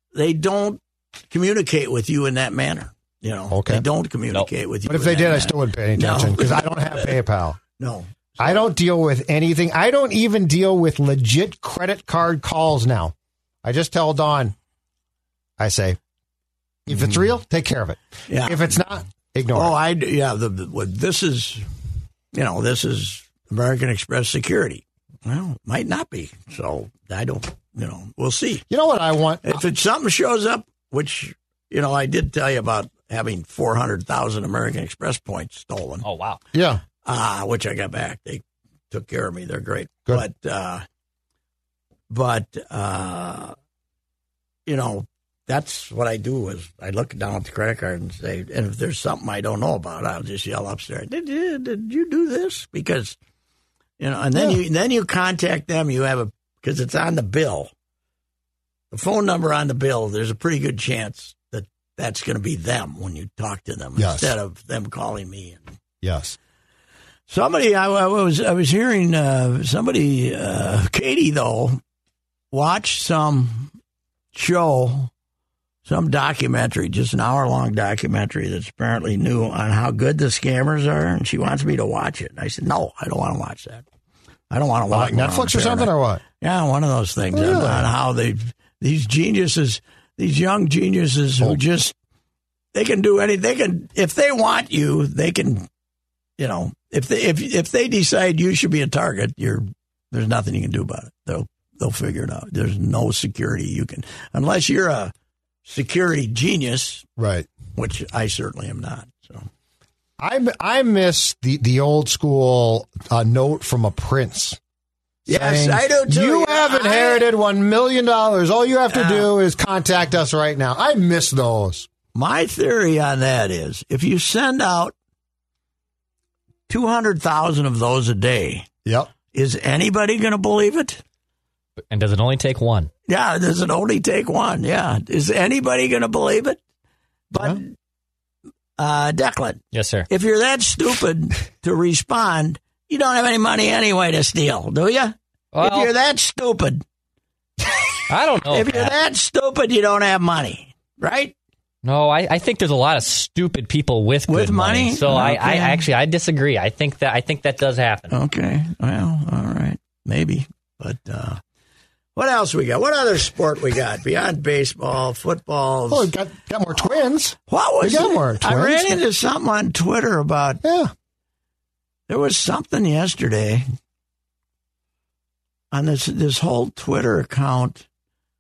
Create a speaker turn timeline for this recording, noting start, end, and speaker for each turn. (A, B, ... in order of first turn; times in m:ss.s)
0:00.1-0:07.2 A
0:03.5-0:03.9 B
0:04.9-0:07.6 B
0:07.8-0:08.7 A
0:08.4-0:14.6 B
0:15.6-0:16.0 B
0:16.9-0:19.8 B
0:18.3-0:18.7 A
0:19.5-0:21.7 A
0:22.3-0:28.7 A
0:28.7-0:29.6 B
0:29.4-0:36.1 A
0:36.0-0:36.4 C
0:36.5-0:36.8 B
0:37.0-0:40.8 A
0:42.1-0:43.6 A
0:44.7-0:53.2 A
0:54.0-0:57.7 A
0:58.9-1:05.7 A
1:04.0-1:04.3 B
1:06.0-1:06.4 B
1:07.3-1:11.8 A
1:12.5-1:13.7 A
1:14.3-1:15.1 A
1:15.8-1:23.8 A
1:24.5-1:31.9 A
1:24.9-1:26.2 B
1:27.3-1:27.9 B
1:32.7-1:35.7 A
1:36.4-1:45.1 A
1:45.7-1:47.0 A
1:47.2-1:47.5 B
1:47.8-1:49.5 A
1:50.2-1:54.6 B
1:55.3-1:57.3 A
1:55.3-2:01.9 B
1:58.9-1:59.3 A
2:02.1-2:05.0 A
2:06.7-2:08.7 A
2:08.9-2:09.1 B
2:09.3-2:11.0 A
2:11.9-2:12.9 C
2:13.1-2:16.6 A
2:17.3-2:17.7 A
2:18.8-2:26.8 A
2:19.7-2:20.1 C
2:25.5-2:25.9 C
2:28.1-2:29.0 C
2:28.5-2:31.3 A
2:31.8-2:38.2 C
2:34.3-2:35.9 A
2:38.1-2:41.4 A
2:42.2-2:46.1 A
2:45.9-2:49.0 B
2:47.5-2:50.6 A
2:50.6-2:50.9 B
2:52.1-2:53.6 A
2:55.7-2:57.8 A